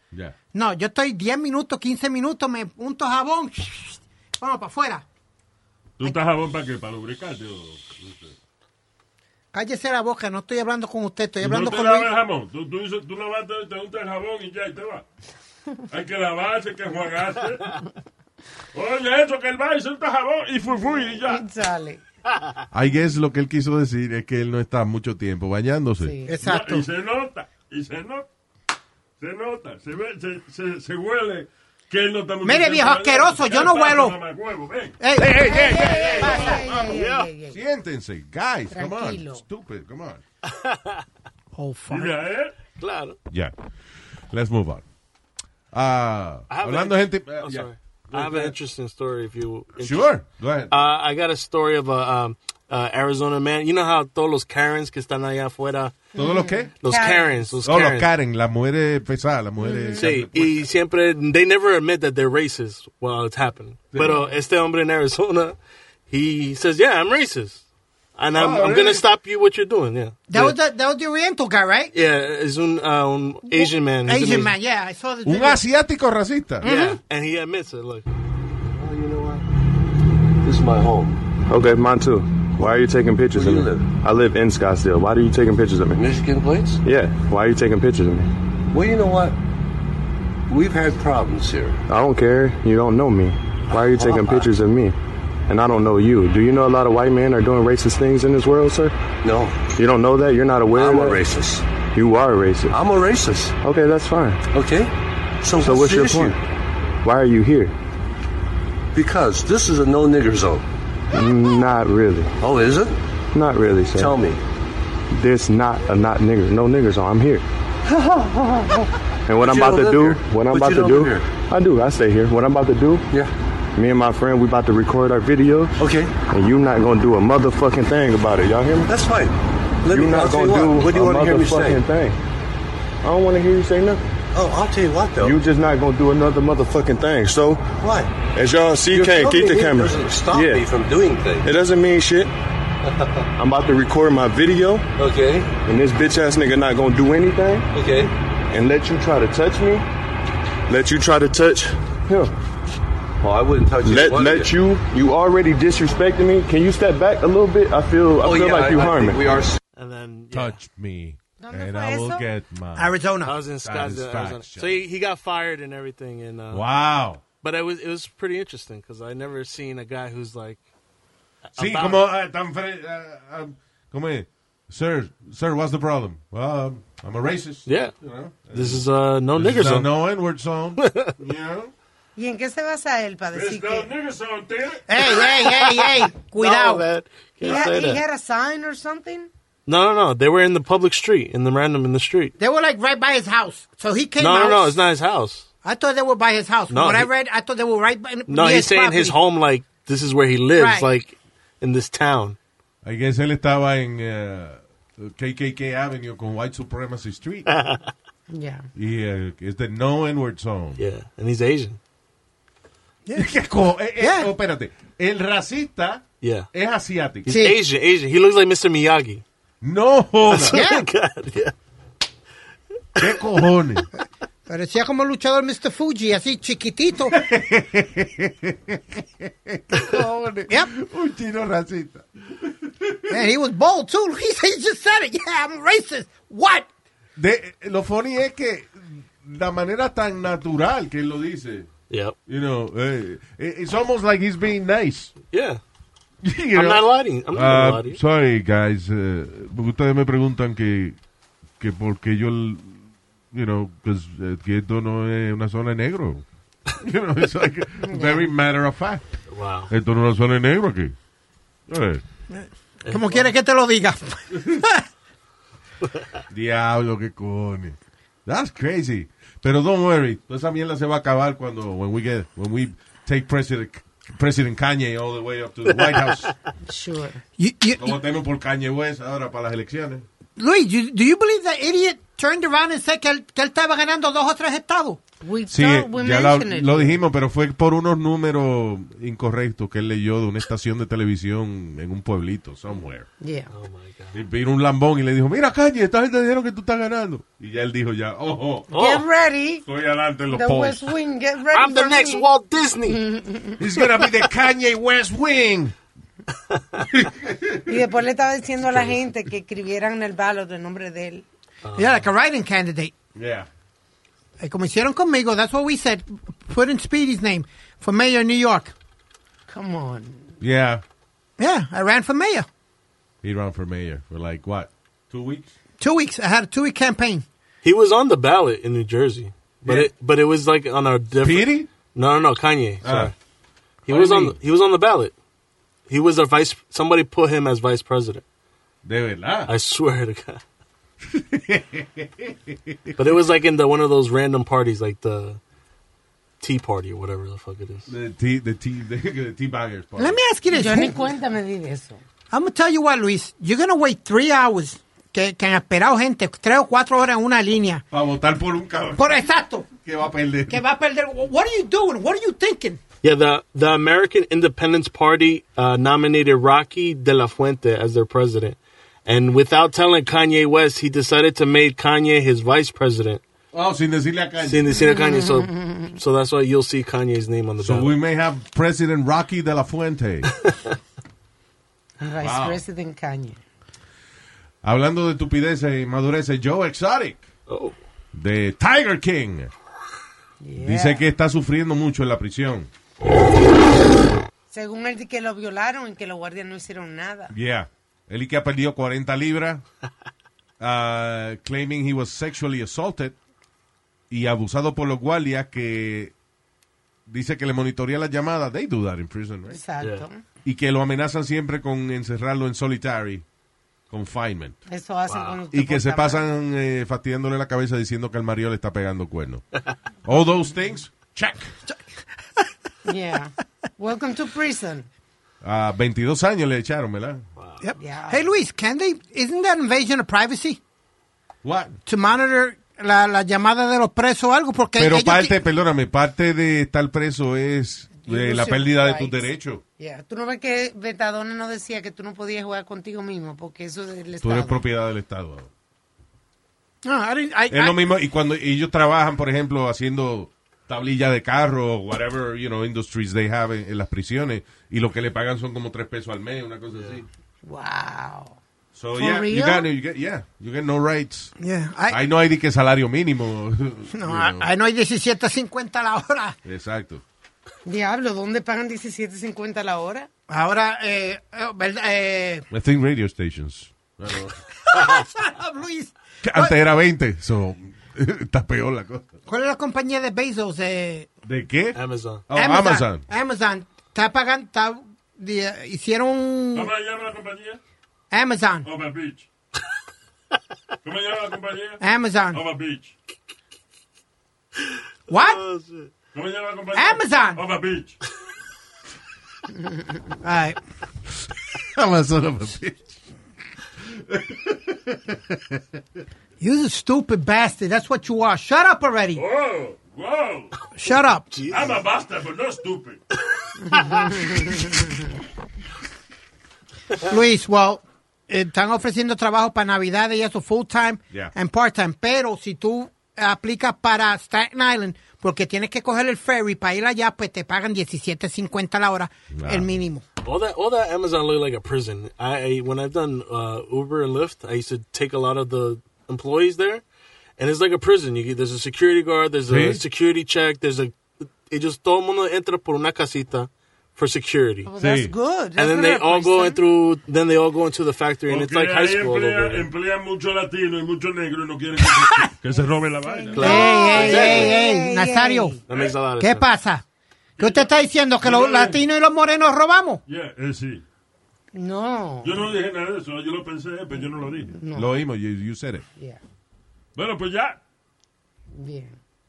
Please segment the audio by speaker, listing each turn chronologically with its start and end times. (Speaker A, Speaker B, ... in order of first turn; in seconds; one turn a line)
Speaker A: 0.5-5.0
Speaker B: 6.0-8.3
Speaker A: 9.5-12.1
Speaker B: 11.4-15.0
Speaker B: 15.9-17.8
Speaker B: 18.7-21.4
Speaker C: 21.2-22.0
Speaker D: 22.7-26.1
Speaker C: 26.0-26.3
Speaker A: 26.2-26.9
Speaker B: 26.4-28.3
Speaker B: 29.2-35.0
Speaker A: 32.4-34.2
Speaker A: 35.0-35.5
Speaker D: 35.1-36.7
Speaker C: 35.4-37.6
Speaker B: 36.1-36.6
Speaker E: 36.7-37.3
Speaker D: 37.5-40.2
Speaker C: 38.7-39.4
Speaker E: 40.5-41.0
Speaker A: 41.5-42.1
Speaker B: 41.9-42.5
Speaker E: 42.8-43.2
Speaker D: 44.3-44.8
Speaker D: 45.7-48.5
Speaker E: 46.5-50.1
Speaker D: 49.8-50.7
Speaker E: 50.7-56.1
Speaker D: 56.1-56.7
Speaker C: 56.1-57.5
Speaker E: 56.8-58.1
Speaker D: 57.6-60.6
Speaker C: 59.6-60.0
Speaker E: 59.9-65.5
Speaker D: 63.9-64.3
Speaker E: 66.1-67.6
Speaker E: 68.2-70.6
Speaker D: 68.3-69.0
Speaker A: 70.3-71.9
Speaker E: 71.9-74.5
Speaker A: 73.5-75.6
Speaker D: 75.2-76.7
Speaker A: 76.6-77.0
Speaker E: 76.6-78.0
Speaker F: 78.7-79.5
Speaker F: 80.4-81.2
Speaker G: 81.5-86.0
Speaker F: 83.3-83.9
Speaker F: 85.9-86.8
Speaker G: 86.8-88.3
Speaker F: 88.7-89.4
Speaker F: 90.5-91.8
Speaker G: 91.9-94.9
Speaker F: 93.7-94.5
Speaker G: 95.5-98.9
Speaker F: 99.2-99.7
Speaker G: 99.8-101.2
Speaker F: 100.7-101.6
Speaker G: 101.9-102.8
Speaker F: 102.7-103.5
Speaker G: 103.6-104.4
Speaker F: 104.5-106.4
Speaker G: 105.6-106.3
Speaker G: 107.0-107.7
Speaker F: 108.9-110.7
Speaker G: 111.1-112.3
Speaker F: 112.4-113.0
Speaker G: 113.3-114.1
Speaker F: 113.9-114.4
Speaker G: 115.1-117.4
Speaker F: 117.9-121.3
Speaker G: 119.3-123.0
Speaker G: 123.7-125.7
Speaker F: 125.8-126.1
Speaker G: 126.3-128.9
Speaker F: 128.8-131.8
Speaker G: 129.9-132.2
Speaker G: 133.0-134.0
Speaker F: 134.3-135.4
Speaker G: 135.2-137.7
Speaker F: 137.8-138.2
Speaker G: 138.3-140.6
Speaker F: 138.9-141.5
Speaker G: 141.4-142.3
Speaker F: 142.9-143.2
Speaker G: 143.4-144.8
Speaker F: 144.9-145.6
Speaker G: 145.6-147.7
Speaker F: 147.7-148.1
Speaker G: 148.5-149.8
Speaker G: 150.7-152.3
Speaker F: 153.2-154.6
Speaker G: 153.8-159.2
Speaker F: 158.2-159.6
Speaker E: 159.8-160.6
Speaker D: 160.3-162.9
Speaker C: 161.4-162.2
Speaker A: 162.8-163.3
Speaker E: 163.2-166.6
Speaker D: 163.6-164.8
Speaker D: 166.5-167.2
Speaker E: 167.4-170.6
Speaker E: 171.5-172.0
Speaker D: 171.6-181.7
Speaker E: 177.7-177.9
Speaker E: 178.5-179.9
Speaker E: 180.8-181.1
Speaker C: 182.2-183.9
Speaker B: 183.3-184.8
Speaker A: 184.9-186.9
Speaker E: 185.1-188.0
Speaker C: 187.4-189.3
Speaker E: 189.7-192.3
Speaker A: 192.4-194.8
Speaker E: 194.2-195.5
Speaker A: 195.6-199.2
Speaker E: 196.7-197.1
Speaker E: 198.3-202.4
Speaker A: 200.6-200.9
Speaker D: 202.8-207.5
Speaker E: 207.5-207.9
Speaker C: 208.3-208.7
Speaker D: 208.7-210.8
Speaker E: 210.8-211.8
Speaker D: 213.2-217.3
Speaker A: 214.0-214.3
Speaker E: 216.2-216.5
Speaker E: 217.2-219.2
Speaker A: 217.3-217.6
Speaker D: 219.6-220.6
Speaker E: 220.3-221.5
Speaker A: 220.5-220.9
Speaker D: 223.0-223.8
Speaker A: 224.5-227.2
Speaker D: 227.1-233.2
Speaker A: 233.1-236.7
Speaker D: 237.2-241.7
Speaker E: 241.9-242.2
Speaker D: 242.3-245.1
Speaker E: 245.3-245.6
Speaker D: 246.2-251.0
Speaker E: 246.5-248.0
Speaker D: 251.6-252.8
Speaker D: 253.3-256.2
Speaker D: 256.8-259.1
Speaker C: 257.8-258.3
Speaker E: 259.3-259.7
Speaker D: 259.7-260.9
Speaker D: 261.7-262.0
Speaker A: 262.3-264.8
Speaker E: 262.8-263.3
Speaker D: 266.3-276.3
Speaker C: 276.6-277.2
Speaker A: 277.4-278.0
Speaker D: 277.8-280.0
Speaker A: 280.4-285.0
Speaker C: 285.2-287.0
Speaker D: 285.5-293.1
Speaker C: 293.2-293.5
Speaker E: 293.5-294.1
Speaker D: 294.1-298.7
Speaker E: 298.7-299.0
Speaker C: 298.7-299.6
Speaker D: 299.6-300.9
Speaker C: 300.3-302.2
Speaker E: 301.5-303.0
Speaker C: 302.9-303.6
Speaker D: 303.6-305.7
Speaker D: 306.8-307.7
Speaker C: 307.6-311.2
Speaker E: 311.6-312.1
Speaker A: 311.7-312.9
Speaker D: 313.1-313.5
Speaker A: 314.4-318.7
Speaker C: 319.5-320.3
Speaker D: 320.4-320.8
Speaker A: 321.4-322.5
Speaker D: 323.2-325.5
Speaker A: 325.8-327.2
Speaker E: 327.6-333.1
Speaker D: 329.6-329.9
Speaker D: 331.2-331.7
Speaker D: 332.8-333.1
Speaker E: 333.9-335.1
Speaker D: 333.9-334.4
Speaker E: 335.9-338.2
Speaker D: 338.8-339.5
Speaker E: 339.5-340.4
Speaker D: 341.1-343.0
Speaker E: 343.0-345.4
Speaker E: 346.4-347.9
Speaker D: 347.9-350.2
Speaker A: 350.0-351.0
Speaker C: 350.5-352.0
Speaker A: 352.3-357.8
Speaker D: 357.9-359.2
Speaker A: 359.0-359.7
Speaker D: 359.8-360.6
Speaker A: 360.5-362.8
Speaker E: 363.0-373.2
Speaker D: 373.5-374.6
Speaker E: 374.4-377.9
Speaker C: 374.7-375.9
Speaker D: 377.6-380.3
Speaker C: 382.0-383.4
Speaker D: 382.2-382.6
Speaker D: 384.6-387.2
Speaker E: 387.5-387.8
Speaker D: 388.1-389.5
Speaker C: 390.4-391.0
Speaker D: 390.6-392.7
Speaker C: 394.5-397.3
Speaker D: 397.3-399.6
Speaker D: 400.6-403.1
Speaker D: 404.1-406.1
Speaker D: 407.1-409.6
Speaker C: 409.5-410.2
Speaker E: 409.8-410.1
Speaker D: 410.4-413.2
Speaker D: 413.9-414.6
Speaker C: 414.7-416.2
Speaker E: 415.1-415.4
Speaker D: 415.5-419.4
Speaker D: 420.0-421.5
Speaker C: 422.8-424.9
Speaker D: 425.4-427.2
Speaker A: 427.6-430.6
Speaker C: 427.8-428.2
Speaker D: 431.4-431.8
Speaker A: 431.9-435.4
Speaker D: 434.8-439.6
Speaker C: 438.0-444.6
Speaker D: 444.2-445.5
Speaker A: 446.8-447.8
Speaker D: 447.5-457.1
Speaker C: 457.4-458.4
Speaker D: 458.7-461.3
Speaker C: 458.9-459.7
Speaker A: 461.4-462.0
Speaker D: 461.9-464.5
Speaker A: 463.9-466.4
Speaker D: 466.4-467.0
Speaker C: 467.6-470.1
Speaker A: 470.3-472.4
Speaker D: 472.5-474.4
Speaker A: 474.7-476.6
Speaker D: 476.2-479.1
Speaker A: 479.3-481.1
Speaker D: 481.2-483.0
Speaker E: 481.7-482.2
Speaker A: 482.3-486.7
Speaker B: 486.5-487.6
Speaker A: 488.1-488.7
Speaker B: 488.6-489.3
Speaker B: 490.8-492.9
Speaker A: 491.8-492.4
Speaker A: 495.1-495.4
Speaker E: 495.1-495.9
Speaker B: 496.1-498.0
Speaker A: 496.7-497.4
Speaker A: 500.2-500.6
Speaker D: 501.5-502.9
Speaker D: 503.9-505.6
Speaker A: 506.4-509.2
Speaker B: 509.1-510.5
Speaker A: 510.8-511.3
Speaker E: 511.3-511.8
Speaker B: 511.5-513.0
Speaker E: 513.4-514.5
Speaker A: 517.0-530.0
Speaker D: 529.3-529.7
Speaker E: 530.2-536.8
Speaker E: 537.4-544.7
Speaker D: 539.5-539.8
Speaker C: 544.6-546.6
Speaker D: 544.8-545.1
Speaker E: 545.5-549.7
Speaker B: 548.3-554.1
Speaker A: 552.0-552.3
Speaker C: 553.0-555.6
Speaker E: 553.3-554.6
Speaker A: 553.4-555.6
Speaker E: 555.7-556.5
Speaker A: 556.2-556.8
Speaker B: 557.4-558.8
Speaker A: 557.4-560.0
Speaker B: 560.1-560.8
Speaker C: 561.5-562.5
Speaker B: 562.2-564.5
Speaker C: 564.5-564.9
Speaker D: 564.7-565.8
Speaker B: 566.9-567.6
Speaker C: 568.5-569.0